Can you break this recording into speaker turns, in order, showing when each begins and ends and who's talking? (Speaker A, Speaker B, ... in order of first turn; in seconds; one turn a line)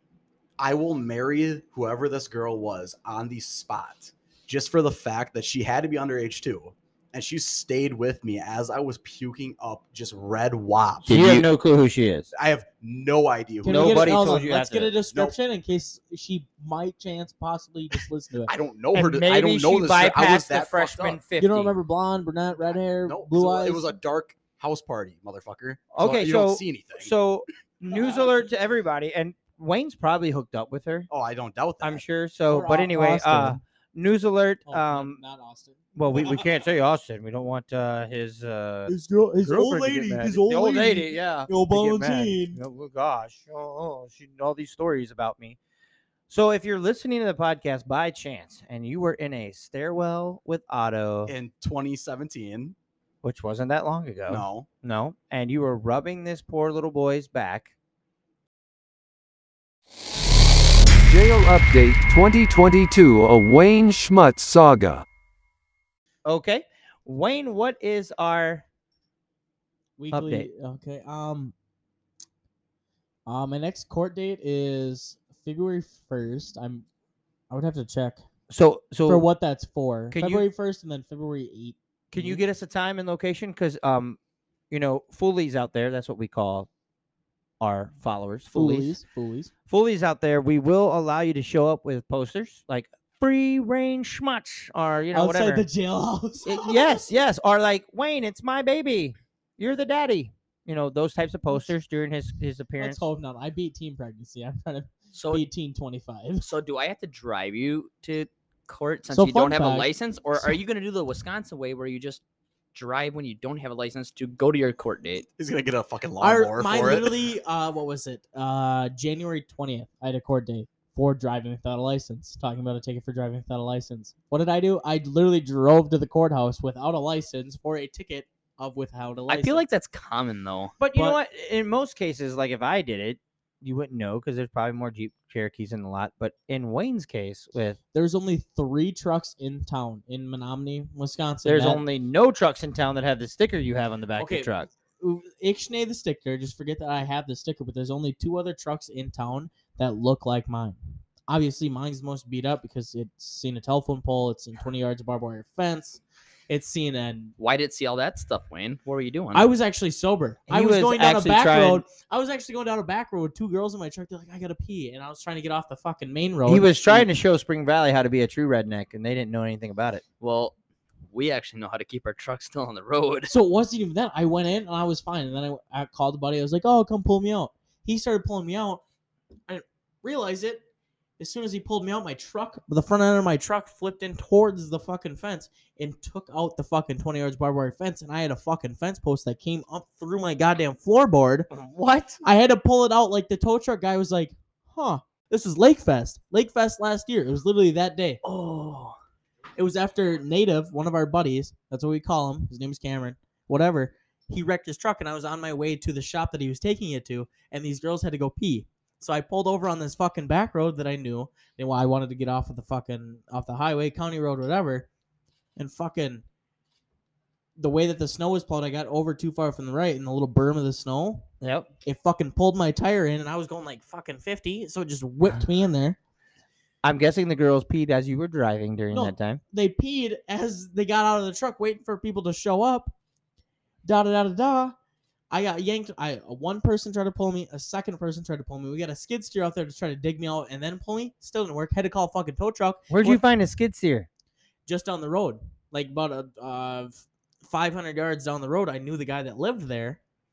Speaker A: 0.6-11.2
Speaker B: 11.1-11.4
Speaker C: 11.1-12.3
Speaker A: 12.3-14.3
Speaker D: 13.6-18.5
Speaker C: 13.6-15.0
Speaker A: 15.1-15.4
Speaker A: 18.4-21.2
Speaker C: 18.9-21.8
Speaker D: 21.4-23.9
Speaker A: 23.0-27.2
Speaker C: 25.9-31.1
Speaker D: 27.9-28.5
Speaker A: 31.1-32.0
Speaker C: 31.8-35.2
Speaker D: 32.5-33.6
Speaker D: 34.7-36.6
Speaker C: 35.9-45.6
Speaker D: 38.9-42.6
Speaker C: 46.3-51.3
Speaker A: 51.2-52.8
Speaker C: 53.2-57.7
Speaker A: 54.3-54.7
Speaker E: 61.0-65.0
Speaker C: 66.2-68.6
Speaker D: 70.0-71.5
Speaker C: 70.1-70.5
Speaker D: 73.2-76.8
Speaker D: 77.5-78.2
Speaker C: 78.5-79.3
Speaker D: 79.0-82.4
Speaker C: 80.1-80.5
Speaker C: 82.1-84.2
Speaker C: 84.7-86.7
Speaker C: 87.6-89.0
Speaker D: 88.5-89.5
Speaker C: 89.7-95.7
Speaker D: 95.1-97.0
Speaker C: 96.4-103.0
Speaker D: 102.8-106.4
Speaker B: 105.1-105.5
Speaker B: 106.4-112.2
Speaker D: 109.1-110.5
Speaker B: 112.7-115.3
Speaker A: 115.4-117.1
Speaker D: 116.2-129.7
Speaker B: 129.3-130.7
Speaker C: 130.8-137.8
Speaker D: 130.9-131.2
Speaker D: 137.9-141.8
Speaker C: 141.4-144.7
Speaker D: 144.2-157.3
Speaker B: 157.4-159.5
Speaker D: 159.3-167.1
Speaker C: 160.5-161.8
Speaker C: 166.4-170.0
Speaker B: 170.2-170.5
Speaker B: 171.1-173.3
Speaker D: 173.3-178.8
Speaker D: 179.5-180.6
Speaker D: 181.2-191.5
Speaker C: 191.5-192.2
Speaker D: 192.2-198.2
Speaker B: 198.2-199.0
Speaker D: 199.6-214.9
Speaker D: 215.6-216.2
Speaker D: 217.6-221.3
Speaker C: 221.4-221.7
Speaker D: 221.8-226.0
Speaker C: 226.8-229.4
Speaker D: 228.9-232.9
Speaker D: 233.8-234.7
Speaker D: 235.3-243.2
Speaker C: 242.9-244.1
Speaker D: 244.7-250.0